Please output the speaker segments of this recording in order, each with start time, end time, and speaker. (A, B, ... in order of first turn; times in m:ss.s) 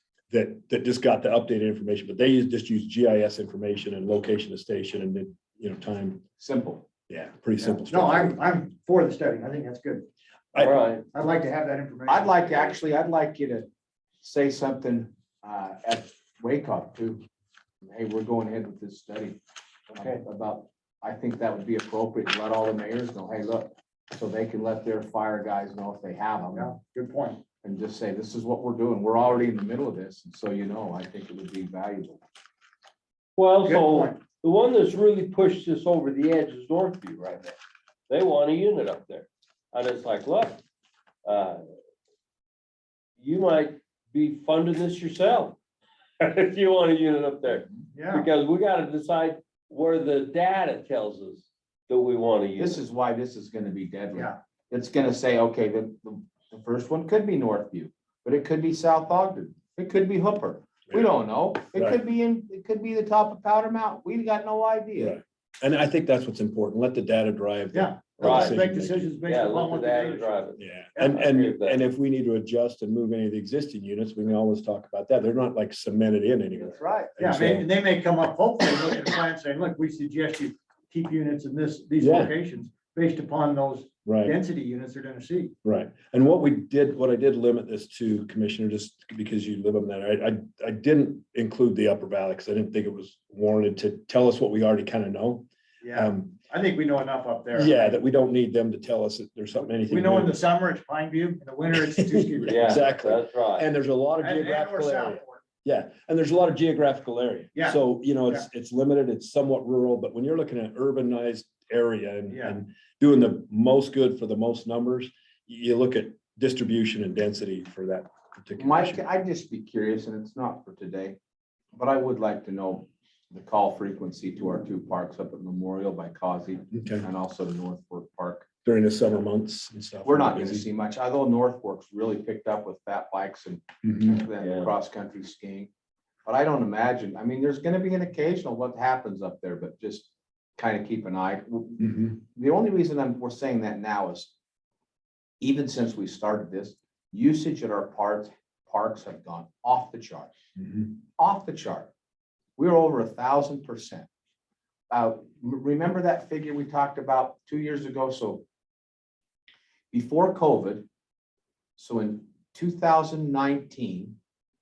0:00.3-0:06.2 A
0:06.4-0:06.8 B
0:07.1-0:08.4 A
0:07.6-0:10.1 C
0:10.5-0:10.8 A
0:10.6-0:11.0 D
0:11.1-0:12.7 C
0:12.1-0:13.7 B
0:14.2-0:17.2 B
0:17.8-0:26.7 B
0:26.5-0:27.4 C
0:27.6-0:32.2 B
0:33.4-0:37.6 D
0:33.6-0:34.2 C
0:38.1-0:40.6 D
0:41.2-0:41.6 D
0:43.2-0:45.6 D
0:46.2-0:52.8 D
0:47.9-0:48.3 C
0:52.6-1:05.2 B
1:05.0-1:09.2 A
1:07.7-1:10.4 C
1:08.2-1:08.6 D
1:09.2-1:11.8 D
1:10.6-1:17.7 A
1:10.9-1:11.2 C
1:16.6-1:25.5 C
1:22.0-1:22.3 A
1:24.0-1:24.4 A
1:25.6-1:36.4 A
1:35.8-1:37.9 C
1:37.5-1:40.4 A
1:39.8-1:42.9 C
1:42.0-1:59.0 A
1:42.4-1:43.6 D
1:44.2-1:45.4 C
1:47.5-1:48.4 C
1:52.3-1:52.6 C
1:58.6-2:01.2 B
2:01.7-2:08.5 B
2:06.7-2:07.0 A
2:08.6-2:10.6 A
2:10.0-2:15.7 B
2:13.8-2:14.2 A
2:14.4-2:14.7 D
2:16.2-2:24.3 B
2:21.8-2:22.1 A
2:25.4-2:30.3 B
2:30.6-2:30.9 A
2:31.2-2:31.9 B
2:32.6-2:34.1 B
2:34.9-2:38.4 B
2:39.9-2:40.8 B
2:41.8-2:44.2 B